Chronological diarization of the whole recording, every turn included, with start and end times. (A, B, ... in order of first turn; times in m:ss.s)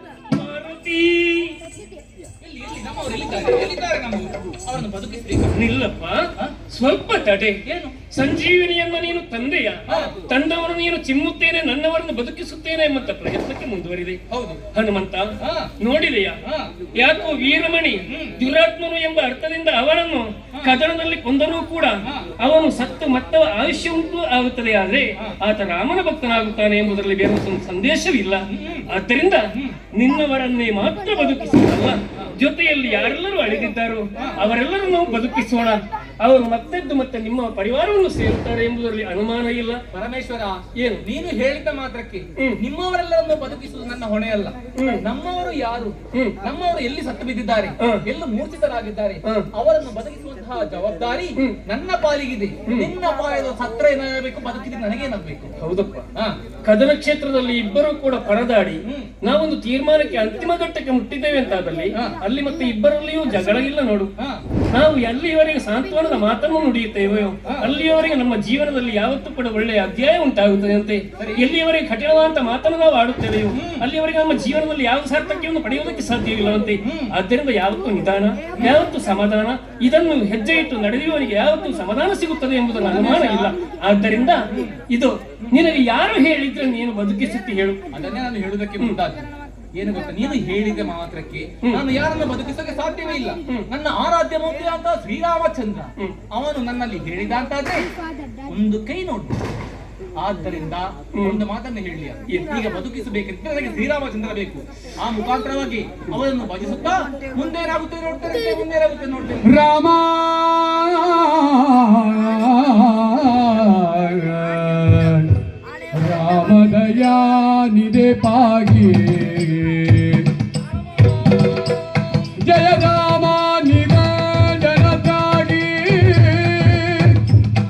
0:00.3-0:01.6 A
0:02.4-0:05.6 B
0:05.5-0:07.6 A
0:07.6-0:08.0 B
0:08.1-0:14.2 A
0:09.9-0:10.1 B
0:14.3-0:14.6 B
0:14.7-0:16.4 A
0:15.4-0:15.7 B
0:16.5-0:16.7 B
0:17.0-0:39.8 A
0:18.1-0:18.4 B
0:28.5-0:28.9 B
0:39.9-0:55.5 B
0:40.8-0:41.0 A
0:44.8-0:45.0 A
0:55.6-0:56.0 A
0:56.6-1:04.1 A
0:58.9-0:59.1 B
1:04.2-1:04.4 B
1:04.7-1:27.8 A
1:11.2-1:11.5 B
1:13.5-1:13.8 B
1:16.8-1:17.1 B
1:22.8-1:23.5 B
1:24.5-1:24.8 B
1:27.9-1:37.9 B
1:38.5-1:39.4 B
1:40.2-1:49.5 B
1:49.4-1:55.3 C
1:55.9-2:00.4 C
2:02.2-2:07.3 C